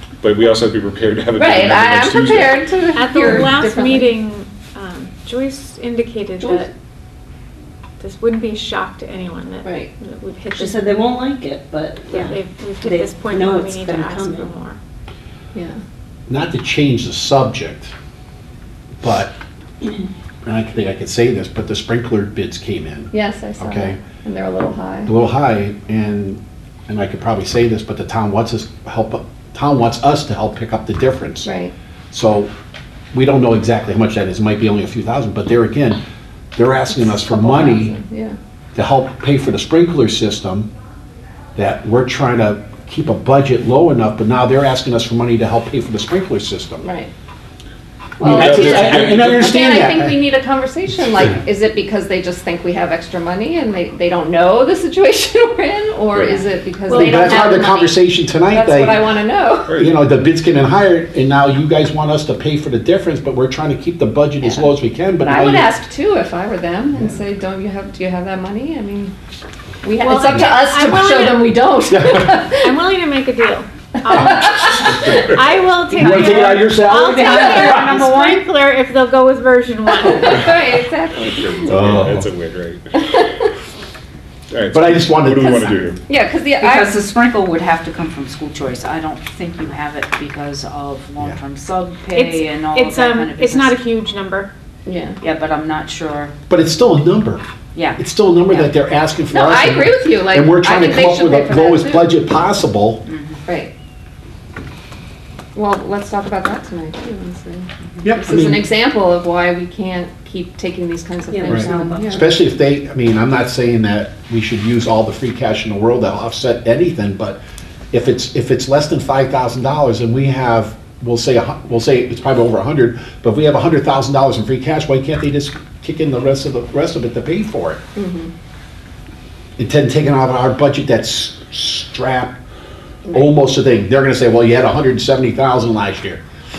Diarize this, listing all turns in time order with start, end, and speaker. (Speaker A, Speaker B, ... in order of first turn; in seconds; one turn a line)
Speaker A: 0.2-2.7
Speaker B: 1.4-4.1
Speaker C: 2.9-6.7
Speaker C: 8.0-10.9
Speaker B: 9.6-9.9
Speaker D: 10.6-12.2
Speaker C: 12.1-14.8
Speaker D: 12.8-14.5
Speaker B: 15.5-15.8
Speaker E: 16.3-17.9
Speaker E: 19.0-19.3
Speaker E: 20.4-24.0
Speaker B: 23.1-25.1
Speaker E: 25.1-31.5
Speaker B: 31.4-31.7
Speaker E: 32.1-32.5
Speaker E: 33.1-36.0
Speaker E: 36.6-37.9
Speaker B: 36.9-38.4
Speaker E: 38.8-40.7
Speaker E: 41.6-46.9
Speaker B: 46.8-47.1
Speaker B: 48.2-59.8
Speaker E: 48.2-50.2
Speaker A: 48.2-49.4
Speaker A: 56.1-56.4
Speaker C: 56.9-57.6
Speaker E: 56.9-59.2
Speaker A: 59.7-60.0
Speaker E: 59.7-65.7
Speaker B: 64.4-64.7
Speaker B: 65.2-69.1
Speaker B: 69.8-72.8
Speaker C: 69.9-71.7
Speaker E: 71.9-72.5
Speaker C: 72.6-74.7
Speaker B: 74.1-75.2
Speaker A: 74.4-75.4
Speaker C: 75.3-80.4
Speaker F: 75.9-78.4
Speaker E: 75.9-78.0
Speaker B: 79.9-82.0
Speaker A: 81.2-83.2
Speaker E: 81.7-82.3
Speaker B: 83.0-83.5
Speaker A: 84.5-86.0
Speaker E: 84.7-85.9
Speaker B: 86.1-87.0
Speaker F: 86.6-93.8
Speaker C: 92.1-94.5
Speaker B: 94.9-95.2
Speaker F: 95.2-96.3
Speaker E: 96.5-97.4
Speaker F: 97.7-98.7
Speaker E: 98.0-103.0
Speaker B: 99.3-102.2
Speaker F: 103.1-103.4
Speaker B: 103.5-103.7
Speaker B: 105.5-112.3
Speaker E: 108.0-108.7
Speaker D: 111.3-112.2
Speaker E: 111.5-117.4
Speaker E: 117.9-127.8
Speaker B: 128.0-128.3
Speaker E: 129.6-132.4
Speaker B: 133.1-133.3
Speaker E: 133.1-136.2